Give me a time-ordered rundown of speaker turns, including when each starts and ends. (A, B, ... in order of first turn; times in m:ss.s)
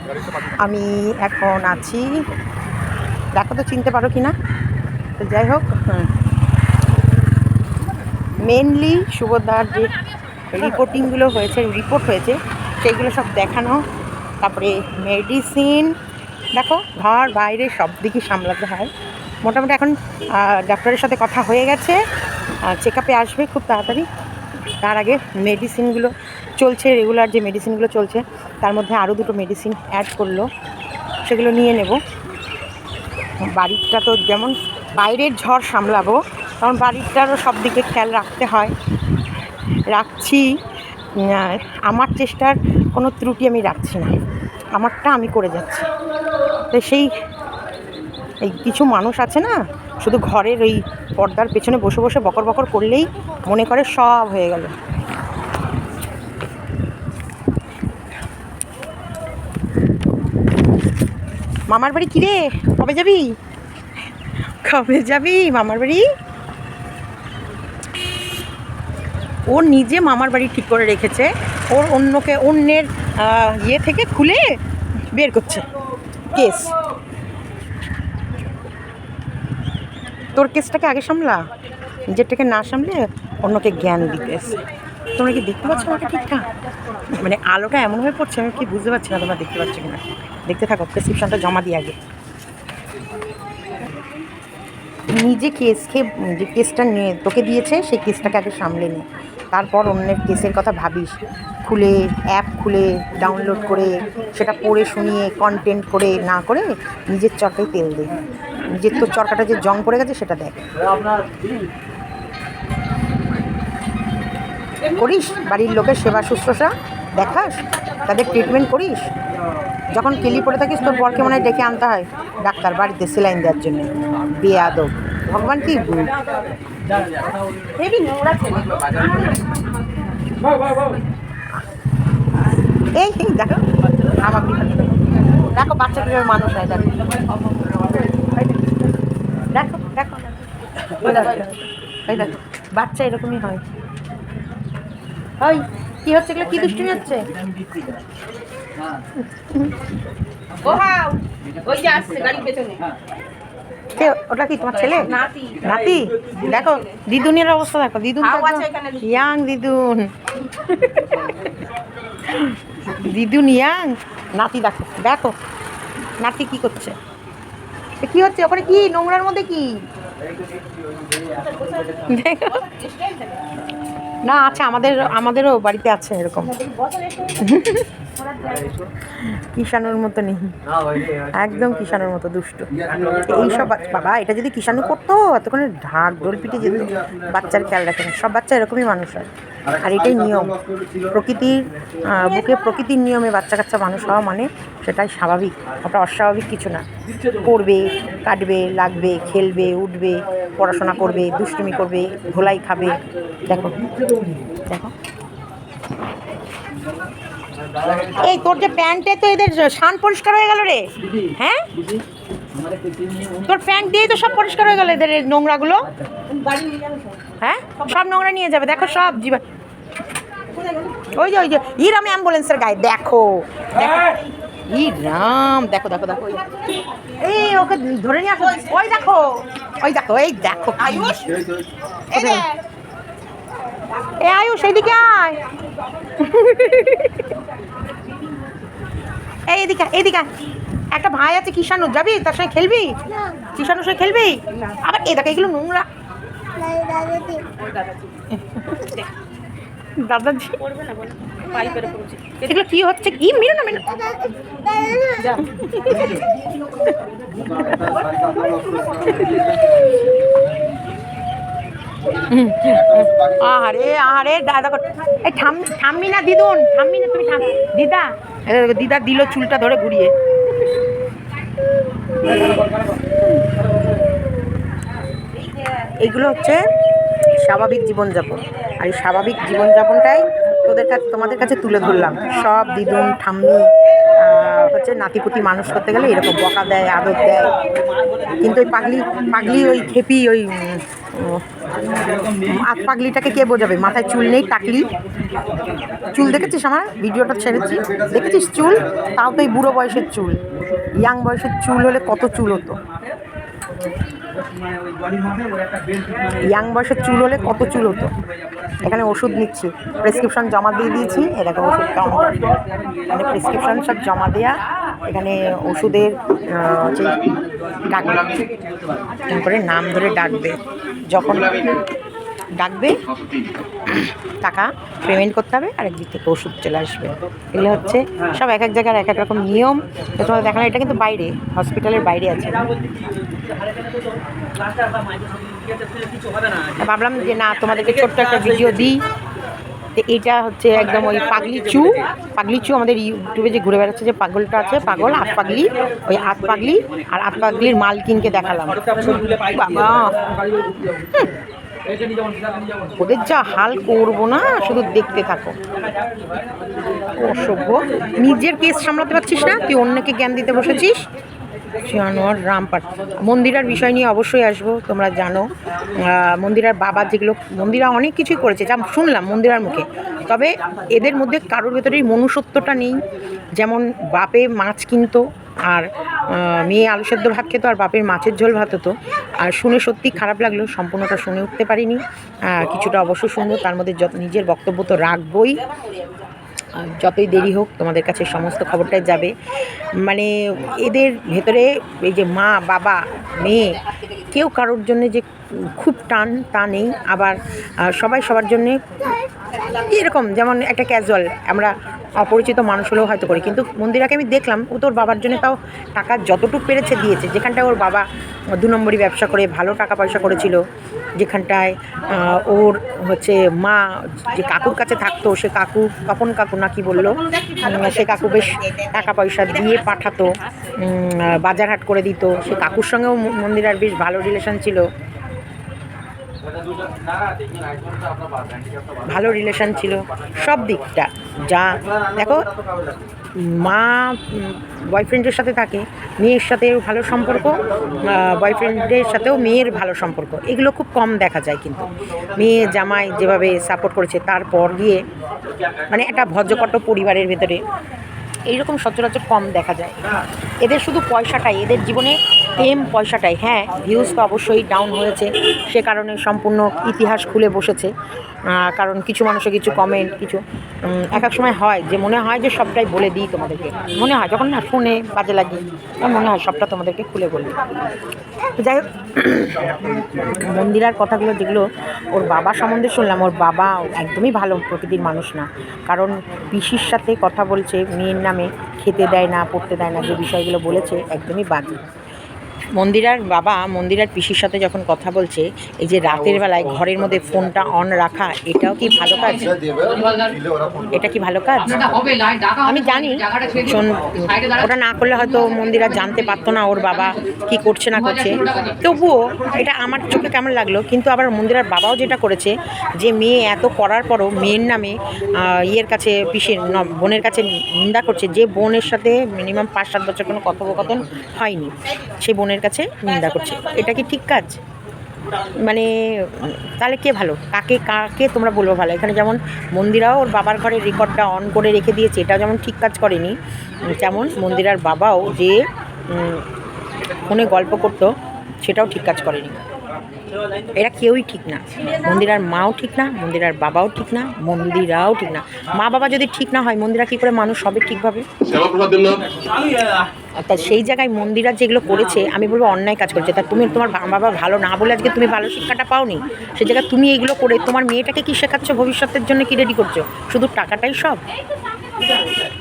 0:00.6-0:02.2 A
0:03.3-0:04.3 A
0:05.2-0:06.1 A
0:08.4-0:09.9 A
0:10.5-0:13.8 A
0:14.4-0:15.9 A
0:16.5-0:18.9 A
0:19.4-0:22.0 A
0:22.7-0:24.1 A
0:24.8-0:30.5 A
0:31.2-0:32.0 A
0:33.5-0:38.7 A
0:39.9-0:40.5 A
0:41.2-0:44.1 A
0:44.7-0:45.8 A
0:46.7-0:47.1 A
0:48.4-0:54.7 A
1:01.7-1:03.4 A
1:04.6-1:06.0 A
1:09.5-1:14.6 A
1:15.1-1:15.7 A
1:16.3-1:16.7 A
1:20.3-1:21.5 A
1:22.0-1:24.6 A
1:25.2-1:26.5 A
1:27.1-1:32.0 A
1:35.1-1:48.2 A
1:48.7-1:50.6 A
1:55.0-1:59.1 A
1:59.9-2:06.1 A
2:07.5-2:09.4 B
2:12.9-2:13.6 A
2:14.2-2:16.9 A
2:19.5-2:23.7 A
2:25.4-2:27.3 A
2:29.2-2:29.7 A
2:30.6-2:32.9 B
2:33.9-2:41.6 A
2:35.2-2:35.6 B
2:38.5-2:39.0 B
2:42.2-2:45.3 A
2:46.2-2:47.0 A
2:48.0-2:49.8 A
2:51.2-2:52.1 B
2:52.0-2:52.6 A
2:52.6-2:53.4 B
2:54.2-2:56.6 A
2:56.6-2:57.4 B
2:57.3-2:57.9 A
2:58.3-2:58.7 B
2:59.2-3:16.8 A
3:17.4-3:23.8 A
3:24.7-3:24.9 A
3:28.0-3:31.7 A
3:33.4-3:35.9 A
3:36.3-3:37.1 B
3:37.4-3:39.4 A
3:41.1-3:46.5 A
3:47.2-3:51.4 A
3:51.0-3:51.3 B
3:52.1-3:52.5 A
3:54.2-3:55.4 A
3:56.2-3:57.3 A
3:59.5-4:00.3 A
4:00.9-4:05.8 A
4:06.6-4:07.9 B
4:08.3-4:09.0 A
4:10.0-4:10.9 A
4:10.7-4:12.4 B
4:12.4-4:14.3 A
4:14.7-4:15.5 B
4:15.1-4:16.2 A
4:17.5-4:17.8 A
4:17.7-4:19.2 B
4:19.0-4:19.4 A
4:22.3-4:30.1 A
4:35.8-4:36.6 A
4:37.4-4:47.6 A
4:48.3-4:51.6 A
4:52.3-4:54.9 A
4:56.1-5:00.4 A
5:01.0-5:02.8 A
5:06.4-5:08.1 A
5:08.8-5:12.5 A
5:13.1-5:18.4 A
5:19.2-5:21.7 A
5:22.6-5:23.0 A
5:23.9-5:32.7 A
5:34.9-5:36.5 B
5:36.8-5:39.0 A
5:40.0-5:50.2 A
5:50.8-5:51.4 A
5:53.0-5:55.6 A
5:57.1-6:01.0 A
6:01.8-6:13.0 A
6:13.5-6:25.6 A
6:26.7-6:29.4 A
6:30.0-6:38.8 A
6:39.7-6:50.6 A
6:51.2-7:04.8 A
7:09.0-7:12.5 A
7:13.4-7:25.0 A
7:25.9-7:27.6 A
7:28.5-7:30.0 A
7:30.6-7:37.9 A
7:38.5-7:47.6 A
7:48.6-8:01.8 A
8:02.8-8:09.6 A
8:10.9-8:34.6 A
8:35.6-8:46.4 A
8:47.2-8:48.1 A
8:48.6-8:49.6 A
8:50.7-8:59.2 A
9:00.4-9:11.2 A